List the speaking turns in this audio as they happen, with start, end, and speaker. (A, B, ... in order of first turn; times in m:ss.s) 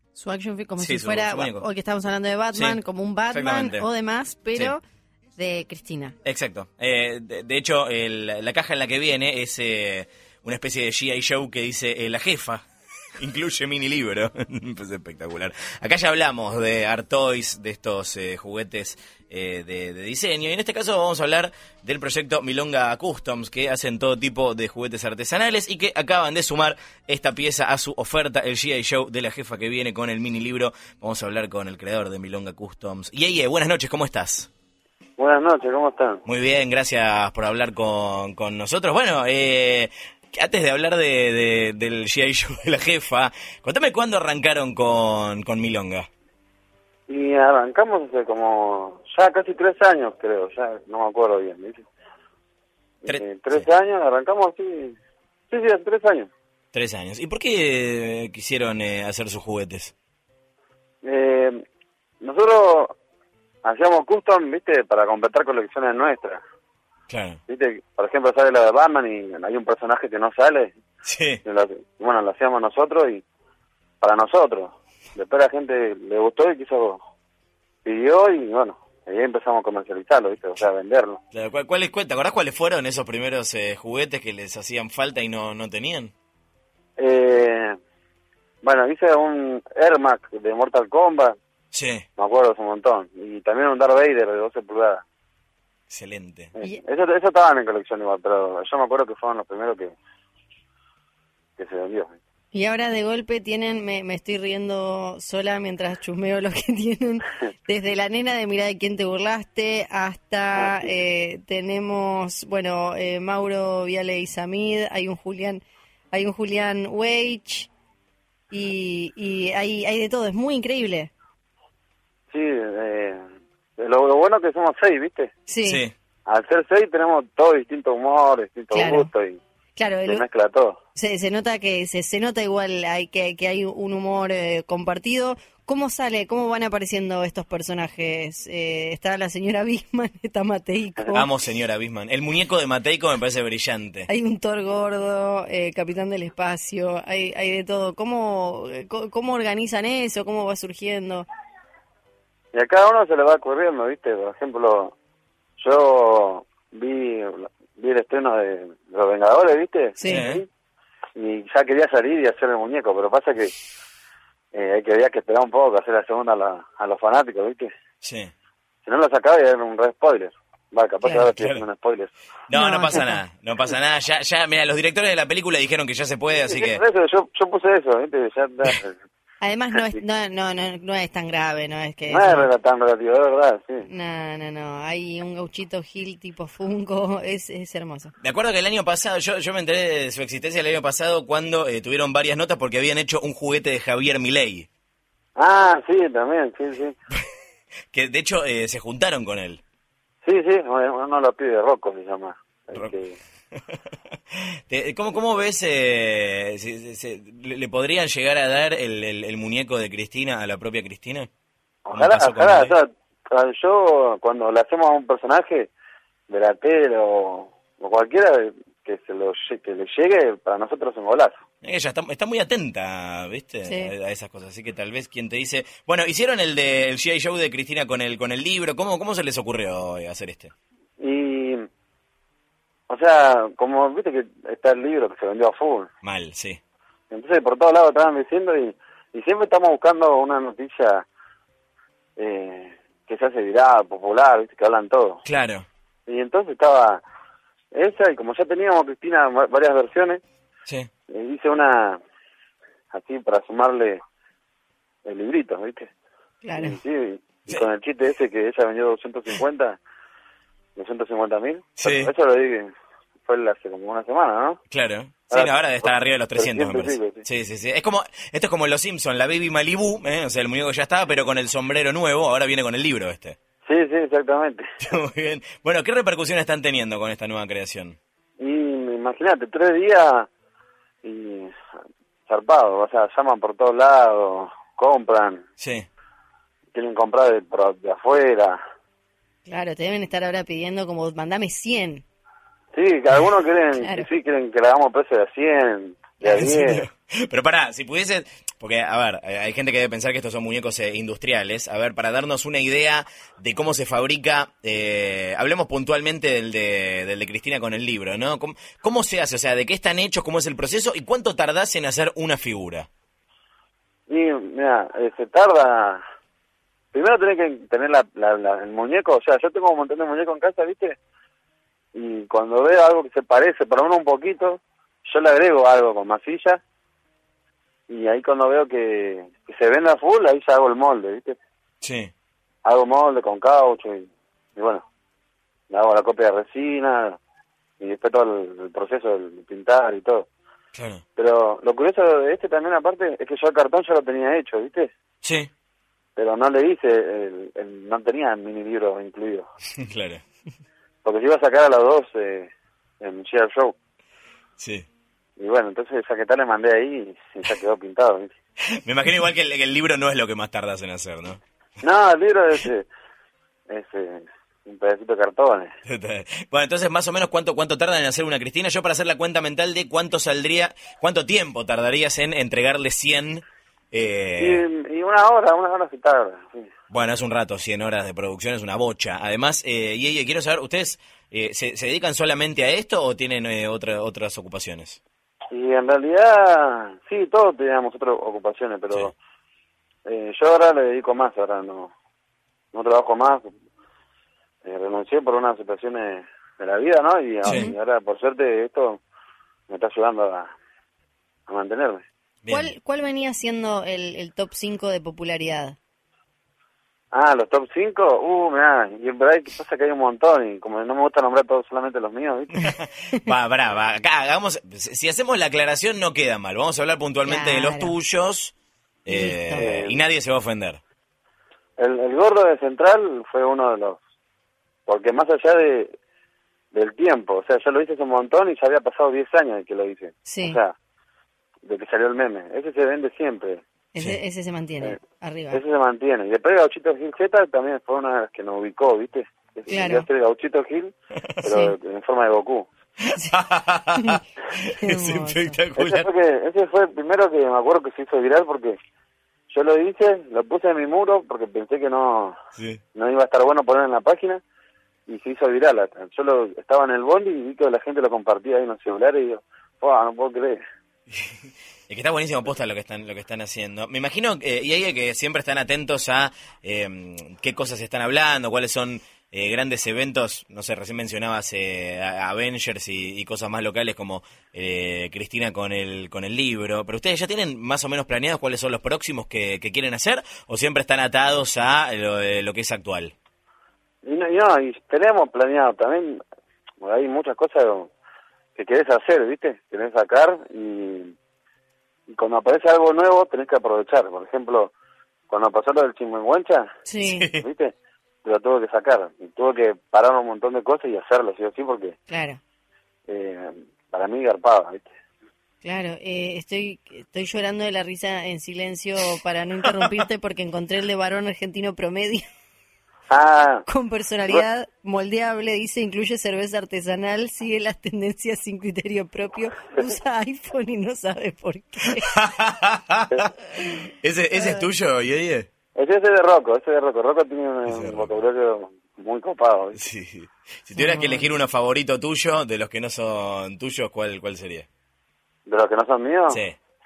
0:00.1-0:04.8 A
0:00.8-0:01.6 B
0:02.5-0:02.8 B
0:03.3-0:03.9 B
0:05.4-0:06.2 A
0:06.2-0:12.6 B
0:13.2-0:34.5 B
0:35.2-0:36.2 C
0:36.2-0:46.1 B
0:47.1-0:51.9 C
0:53.0-0:55.0 C
0:53.0-0:53.7 B
0:55.5-0:56.3 C
0:56.7-0:59.9 B
1:01.0-1:01.6 C
1:02.2-1:02.9 C
1:03.6-1:06.4 C
1:07.1-1:07.4 B
1:07.5-1:10.8 C
1:11.0-1:11.4 B
1:11.4-1:13.2 C
1:14.0-1:17.0 C
1:17.8-1:21.2 C
1:21.3-1:26.1 B
1:27.0-1:27.8 C
1:28.6-1:31.4 C
1:31.7-1:32.0 B
1:32.2-1:35.0 C
1:35.9-1:36.5 B
1:36.6-1:39.9 C
1:41.6-1:42.2 C
1:42.5-1:55.6 A
1:50.6-1:50.9 C
1:56.1-1:57.7 A
1:58.5-2:01.1 A
2:02.3-2:03.2 C
2:03.8-2:05.3 C
2:05.5-2:05.8 A
2:05.6-2:05.9 B
2:06.2-2:09.4 C
2:08.7-2:09.1 A
2:09.8-2:10.2 A
2:10.0-2:10.8 C
2:11.0-2:21.3 A
2:21.1-2:24.1 B
2:24.1-2:31.3 A
2:32.5-2:34.9 C
2:35.6-2:40.4 C
2:40.0-2:40.2 A
2:40.0-2:40.4 B
2:41.2-2:43.5 C
2:44.5-2:47.7 C
2:48.0-2:48.3 B
2:48.8-2:52.1 C
2:51.0-2:51.3 A
2:51.4-2:51.6 B
2:52.5-2:56.8 B
2:52.5-2:53.2 A
2:56.4-2:59.0 C
2:59.4-3:02.5 A
3:02.1-3:03.9 C
3:03.8-3:08.1 A
3:08.2-3:14.7 B
3:15.4-3:16.9 C
3:17.9-3:19.6 B
3:20.2-3:23.2 C
3:24.7-3:31.3 B
3:31.8-3:35.7 C
3:31.9-3:32.7 B
3:36.3-3:41.4 C
3:41.6-3:50.5 B
3:43.6-3:43.9 A
3:51.0-3:51.7 C
3:52.9-3:55.9 C
3:56.0-3:56.6 B
3:57.1-4:01.0 C
4:02.2-4:05.2 C
4:05.2-4:05.7 B
4:06.1-4:07.0 C
4:07.7-4:10.2 C
4:11.1-4:12.0 C
4:12.9-4:14.0 C
4:15.0-4:15.9 C
4:16.4-4:16.8 A
4:16.6-4:19.8 C
4:20.8-4:22.7 C
4:21.8-4:22.1 B
4:23.2-4:24.6 C
4:24.7-4:33.4 B
4:25.3-4:27.2 C
4:33.6-4:34.6 C
4:34.8-4:38.0 B
4:38.4-4:40.3 C
4:41.0-4:41.5 C
4:42.3-4:45.4 C
4:45.6-4:45.9 B
4:46.7-4:48.6 C
4:49.4-4:52.0 A
4:52.7-4:56.8 C
4:53.7-4:54.1 A
4:56.2-4:56.7 A
4:56.4-5:12.9 B
5:14.1-5:16.0 C
5:16.9-5:21.0 C
5:21.9-5:26.6 C
5:27.9-5:31.4 C
5:31.8-5:32.1 B
5:32.6-5:34.8 C
5:35.7-5:37.2 C
5:37.8-5:40.3 C
5:40.7-5:41.0 B
5:41.2-5:44.9 C
5:45.2-5:45.5 B
5:46.2-5:49.4 C
5:49.8-5:50.2 B
5:51.0-5:52.5 C
5:53.0-5:53.7 C
5:54.6-5:54.9 B
5:55.4-5:58.3 C
5:58.8-6:01.4 B
6:01.8-6:02.9 C
6:03.7-6:05.7 C
6:05.8-6:14.6 B
6:14.4-6:16.7 C
6:16.9-6:25.0 B
6:25.5-6:29.1 C
6:30.0-6:31.9 C
6:32.7-6:33.5 C
6:34.6-6:39.0 C
6:37.4-6:37.7 A
6:39.7-6:40.5 C
6:41.5-6:42.0 C
6:42.4-6:42.7 B
6:42.5-6:45.8 A
6:47.1-6:52.7 C
6:52.6-6:58.5 B
6:57.2-6:57.9 A
6:59.0-7:00.8 B
6:59.1-6:59.6 A
6:59.5-7:00.0 C
7:01.8-7:04.0 C
7:04.9-7:05.9 C
7:06.7-7:10.7 C
7:10.2-7:10.6 A
7:11.6-7:13.6 C
7:13.9-7:15.6 A
7:15.5-7:22.7 C
7:19.7-7:20.0 A
7:21.4-7:21.7 A
7:23.1-7:26.1 B
7:23.9-7:25.6 A
7:25.8-7:28.8 C
7:29.5-7:32.4 C
7:32.6-7:32.8 B
7:32.9-7:34.4 C
7:35.1-7:40.6 C
7:41.1-7:41.4 B
7:41.9-8:03.1 B
8:04.0-8:06.2 C
8:06.8-8:07.9 C
8:08.6-8:11.1 C
8:12.1-8:14.7 C
8:15.3-8:16.7 C
8:16.9-8:17.3 A
8:17.0-8:17.4 B
8:17.3-8:21.9 C
8:22.1-8:22.4 A
8:23.1-8:24.9 C
8:25.6-8:32.2 A
8:33.1-8:33.6 C
8:33.7-8:42.2 A
8:41.8-8:45.5 B
8:44.3-8:44.6 A
8:45.7-8:49.8 C
8:47.7-8:48.2 B
8:49.8-8:54.6 B
8:50.7-8:51.3 A
8:55.4-8:56.4 C
8:56.3-8:56.6 B